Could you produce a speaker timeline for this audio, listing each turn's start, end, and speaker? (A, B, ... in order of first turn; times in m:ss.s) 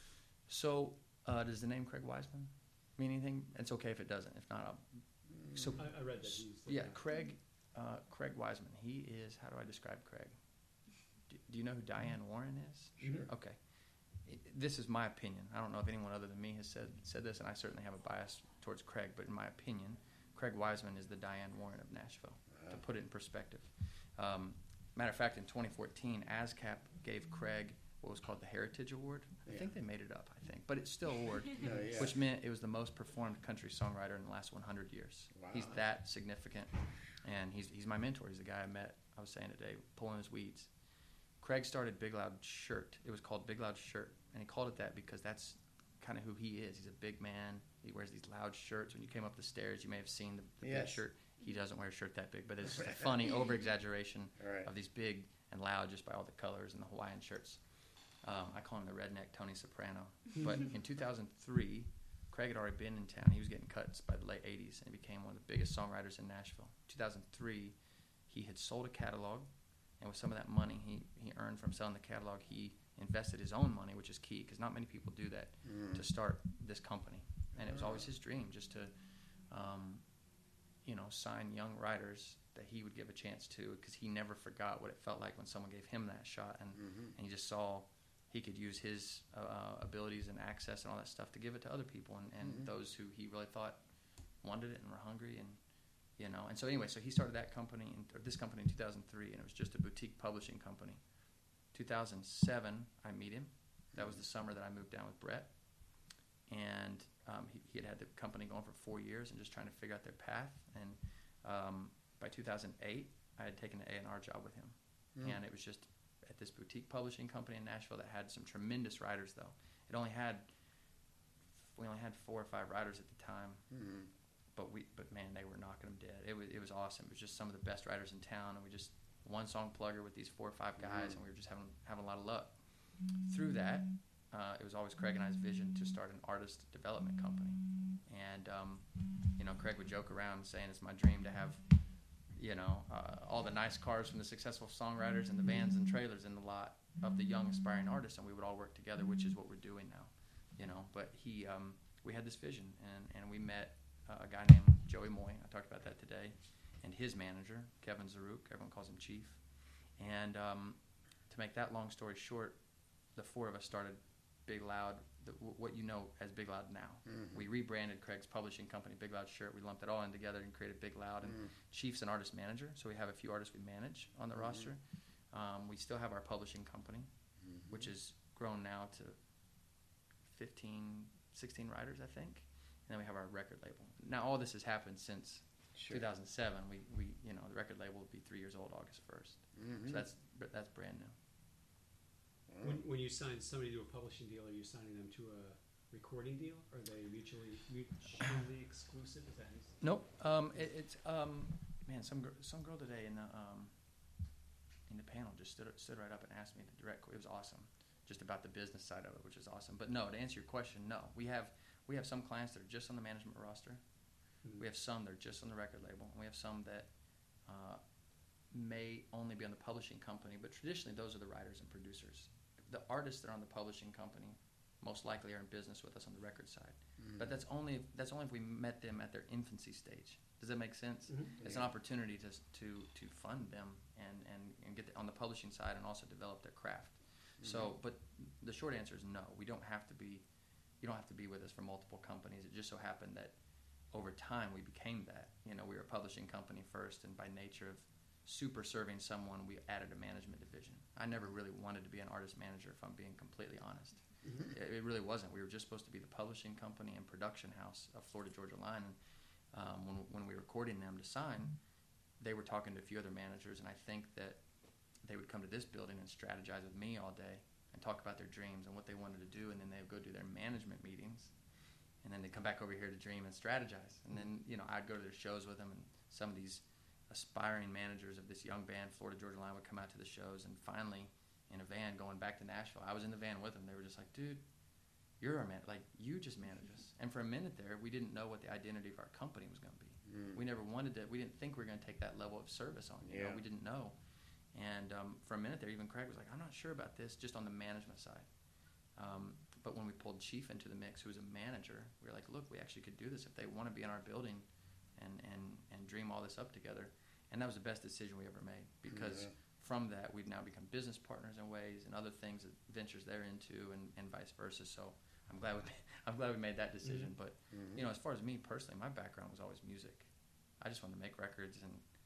0:00.5-0:10.4 A
0:05.3-0:05.8 B
0:05.8-0:07.0 C
0:11.3-0:13.6 A
0:13.0-0:13.3 B
0:14.2-0:40.7 A
0:22.5-0:22.8 B
0:29.4-0:29.7 B
0:31.6-0:32.2 B
0:35.3-0:35.8 B
0:41.4-0:57.6 A
0:50.6-0:51.0 B
0:52.8-0:53.1 B
0:54.4-0:54.7 B
0:58.2-1:07.8 A
1:08.3-1:18.9 A
1:15.6-1:16.0 B
1:17.5-1:18.0 B
1:19.5-1:20.0 A
1:20.8-1:33.8 A
1:26.8-1:27.1 B
1:32.4-1:32.7 B
1:34.4-1:35.6 A
1:36.2-1:41.0 A
1:41.7-1:45.5 A
1:43.9-1:44.2 B
1:46.5-2:00.5 A
2:01.7-2:03.6 A
2:03.7-2:04.1 B
2:04.5-2:12.6 A
2:10.8-2:11.2 B
2:13.1-2:21.6 A
2:22.3-2:39.4 A
2:40.0-2:42.6 A
2:43.1-2:57.1 A
2:47.1-2:47.4 B
2:54.3-2:54.7 B
2:57.4-2:57.9 B
2:57.7-2:59.2 A
3:00.2-3:11.1 A
3:05.7-3:06.0 B
3:09.6-3:10.1 B
3:12.5-3:12.8 B
3:12.6-3:19.8 C
3:19.8-3:23.7 A
3:24.9-3:33.8 A
3:34.6-3:36.9 A
3:37.4-3:37.8 A
3:38.5-4:00.2 A
3:47.0-3:47.3 B
3:51.1-3:51.3 C
3:51.4-3:51.7 B
3:57.4-3:57.7 B
4:00.8-4:03.3 A
4:03.9-4:18.9 A
4:19.5-4:21.6 A
4:22.2-4:24.4 A
4:25.0-4:31.3 A
4:32.0-4:44.4 A
4:45.2-4:53.9 A
4:50.1-4:50.4 B
4:53.0-4:53.4 B
4:54.5-4:58.3 A
4:59.0-5:21.8 A
5:08.9-5:09.3 B
5:16.8-5:17.1 C
5:17.5-5:17.8 B